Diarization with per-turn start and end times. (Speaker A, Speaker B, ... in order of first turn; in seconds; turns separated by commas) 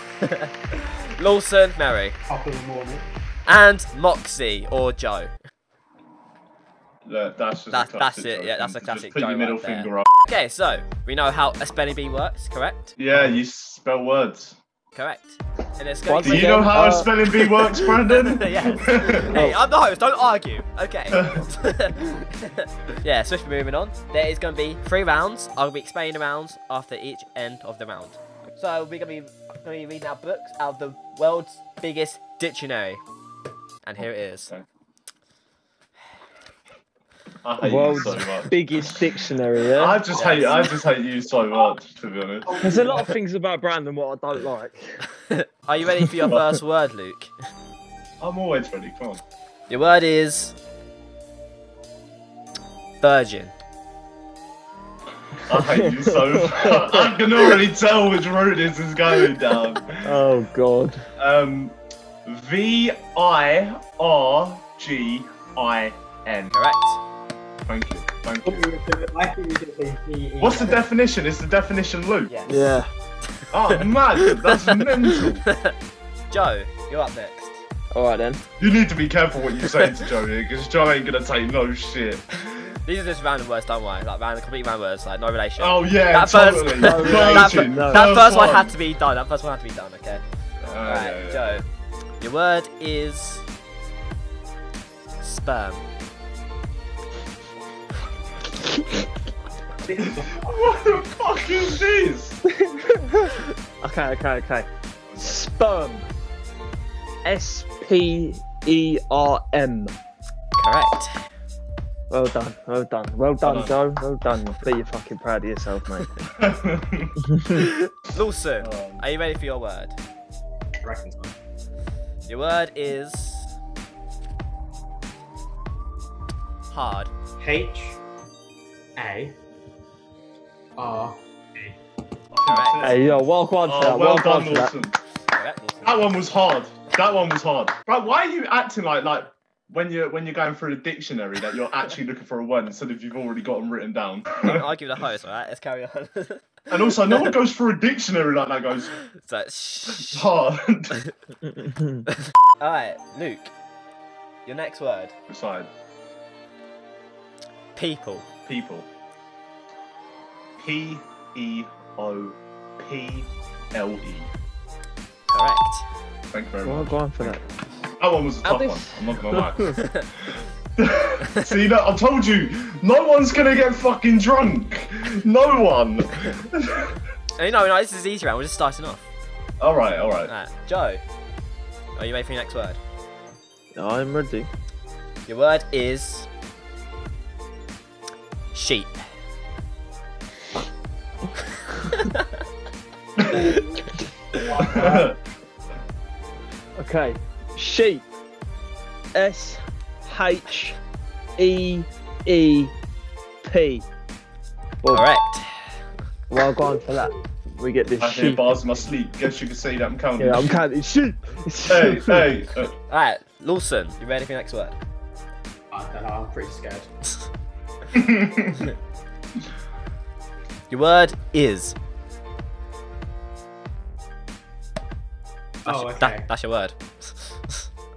Speaker A: 0.2-2.2, Speaker B: 2.3-3.0, Speaker A: 3.5-5.3, Speaker C: 7.0-10.1, Speaker A: 7.7-12.9, Speaker C: 12.9-14.6, Speaker A: 14.9-16.7, Speaker D: 16.1-17.8, Speaker C: 16.2-19.4, Speaker A: 18.1-33.0, Speaker D: 19.3-19.6, Speaker C: 21.1-21.5, Speaker A: 33.8-34.5, Speaker C: 34.0-34.6, Speaker C: 37.4-38.5, Speaker D: 37.6-40.0, Speaker C: 39.7-42.8, Speaker A: 40.1-40.7, Speaker B: 42.4-43.1, Speaker D: 42.6-45.0, Speaker A: 45.3-47.3, Speaker C: 48.2-49.2, Speaker A: 49.7-50.5, Speaker A: 53.0-53.5, Speaker C: 55.4-60.1, Speaker D: 55.5-57.5, Speaker D: 59.9-61.0, Speaker C: 61.2-61.7, Speaker C: 62.2-66.5, Speaker A: 66.5-67.0, Speaker C: 67.7-68.7, Speaker B: 68.4-70.8, Speaker C: 70.4-72.3, Speaker A: 72.3-72.6, Speaker D: 72.5-72.9, Speaker C: 73.5-75.5, Speaker A: 73.7-74.7, Speaker A: 75.5-75.7, Speaker A: 76.3-77.6, Speaker D: 77.9-78.4, Speaker C: 78.6-82.7, Speaker A: 82.8-90.2, Speaker C: 85.6-88.7, Speaker D: 86.8-88.1, Speaker C: 90.6-91.4, Speaker A: 90.8-91.6, Speaker A: 92.2-93.4, Speaker A: 95.2-95.8, Speaker B: 99.8-100.8, Speaker C: 100.0-102.4, Speaker D: 102.5-104.7, Speaker C: 105.1-105.4, Speaker D: 105.2-106.1, Speaker D: 107.2-109.9, Speaker A: 110.6-111.2, Speaker D: 112.1-116.1, Speaker C: 113.4-113.8, Speaker C: 116.3-117.2, Speaker D: 117.3-117.6, Speaker A: 117.5-120.0, Speaker C: 118.6-119.0, Speaker B: 120.8-121.3, Speaker A: 122.3-123.5, Speaker A: 126.7-127.1, Speaker B: 127.4-128.0, Speaker B: 129.0-129.3, Speaker B: 130.8-131.8, Speaker C: 132.3-135.0, Speaker A: 132.4-133.0, Speaker D: 132.8-134.7, Speaker A: 135.3-136.1, Speaker C: 135.8-144.6, Speaker A: 144.4-146.5, Speaker C: 146.7-148.9, Speaker A: 149.1-150.2, Speaker C: 150.0-150.9, Speaker D: 151.4-152.1, Speaker A: 152.1-153.5, Speaker A: 154.4-155.1, Speaker C: 155.3-155.7, Speaker A: 157.8-158.2, Speaker C: 158.4-158.9, Speaker C: 160.6-164.3, Speaker A: 165.3-165.8, Speaker C: 166.3-167.4, Speaker D: 166.6-167.4, Speaker C: 168.0-170.0, Speaker D: 168.4-169.8, Speaker A: 169.8-170.1, Speaker C: 170.8-177.0, Speaker A: 177.4-179.1, Speaker C: 179.6-180.3, Speaker A: 180.3-181.0, Speaker A: 181.9-182.8, Speaker D: 183.8-184.5, Speaker A: 185.3-186.3, Speaker A: 188.5-189.0, Speaker A: 191.9-192.2, Speaker C: 193.2-193.6, Speaker B: 193.3-193.6, Speaker B: 194.3-195.1, Speaker C: 194.6-195.2, Speaker D: 196.8-198.0, Speaker D: 199.1-200.8, Speaker D: 201.4-202.7, Speaker D: 203.4-203.8, Speaker A: 204.9-205.7, Speaker D: 206.3-208.5, Speaker C: 208.0-210.6, Speaker D: 210.2-212.3, Speaker C: 211.7-212.7, Speaker A: 212.9-214.8, Speaker B: 215.7-216.9, Speaker C: 217.9-218.7, Speaker A: 220.7-221.8, Speaker B: 225.6-226.3, Speaker A: 225.7-227.7